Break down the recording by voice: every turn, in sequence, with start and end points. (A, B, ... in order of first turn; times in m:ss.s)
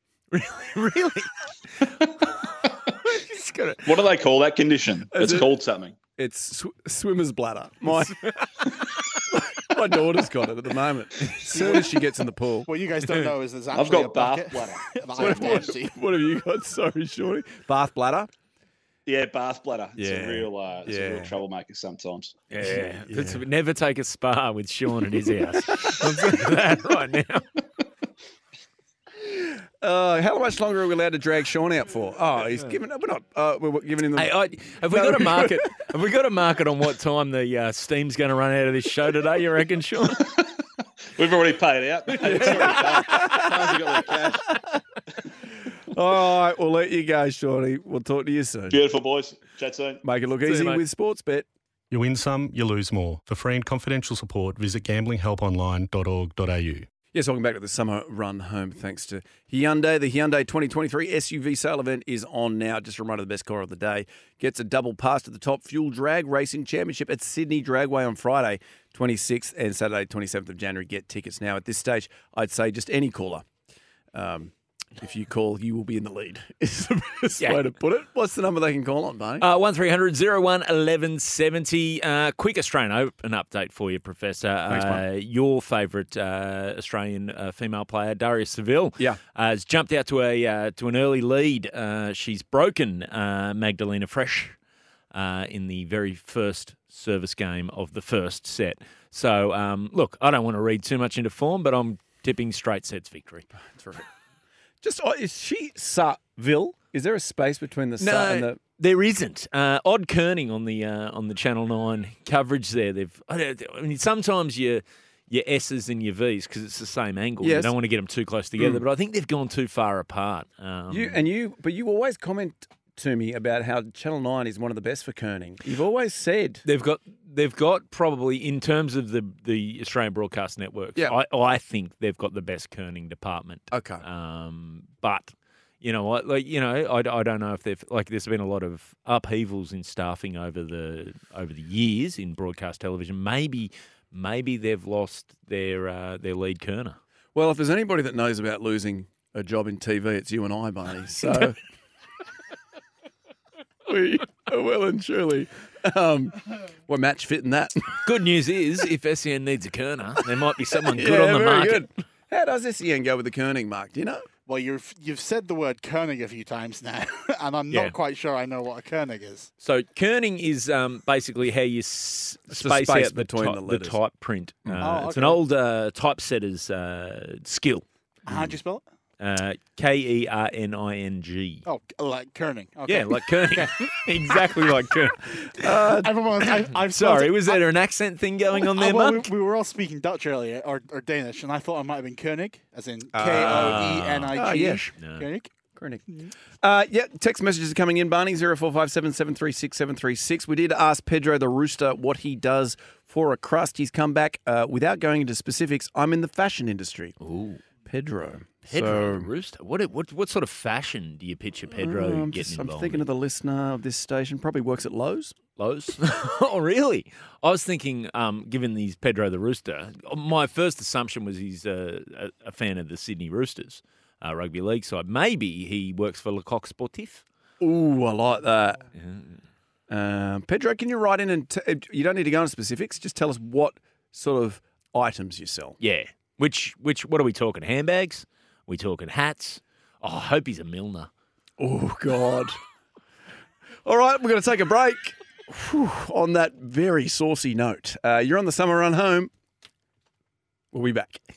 0:00.3-0:02.5 A
0:03.0-0:04.1 A
0:03.8-0:06.0 B
0:05.1-0:05.6 C
0:06.2-0:08.2 C
0:07.9-0:09.4 A
0:09.3-0:12.7 C
0:11.5-0:12.0 D
0:12.6-0:16.0 D
0:13.7-0:15.7 B
0:15.2-0:18.3 C
0:19.0-0:22.3 B
0:20.0-0:21.3 C
0:22.5-0:27.4 A
0:23.1-0:23.4 C
0:29.2-0:34.3 C
0:34.1-0:40.3 A
0:34.9-0:35.7 C
0:41.1-0:44.5 B
0:42.1-0:43.9 A
0:42.2-0:43.8 C
0:45.9-0:48.8 C
0:48.7-0:50.0 B
0:50.0-0:51.5 C
0:50.4-0:50.8 A
0:51.9-0:56.9 E
0:57.1-1:13.5 C
1:14.1-1:19.4 C
1:17.4-1:17.6 A
1:19.4-1:34.6 A
1:24.7-1:25.0 C
1:35.1-1:43.4 A
1:43.5-1:44.0 C
1:44.8-1:48.6 C
1:48.0-2:01.2 A
1:57.4-1:57.7 C
1:58.6-1:58.8 C
2:00.9-2:06.6 C
2:06.6-2:27.0 A
2:13.7-2:14.0 C
2:27.3-2:31.6 C
2:33.8-2:38.0 C
2:38.0-2:41.9 A
2:40.8-2:44.3 C
2:44.5-2:49.5 D
2:49.6-2:57.8 A
2:52.5-2:54.0 C
2:54.8-2:55.4 D
2:58.2-2:58.8 D
2:59.2-3:01.6 A
3:01.6-3:04.7 D
3:02.9-3:05.8 A
3:05.3-3:06.1 C
3:05.8-3:07.7 D
3:06.4-3:09.3 A
3:08.5-3:15.5 D
3:13.1-3:14.8 C
3:13.2-3:15.3 A
3:15.8-3:16.0 C
3:16.6-3:27.2 C
3:27.2-3:27.6 A
3:27.8-3:29.3 C
3:28.7-3:33.0 A
3:31.7-3:35.4 C
3:35.6-3:47.2 A
3:47.6-3:48.8 C
3:49.0-3:49.3 A
3:49.9-3:55.8 C
3:55.8-4:01.1 A
4:01.6-4:02.6 C
4:03.8-4:09.3 C
4:10.7-4:11.2 C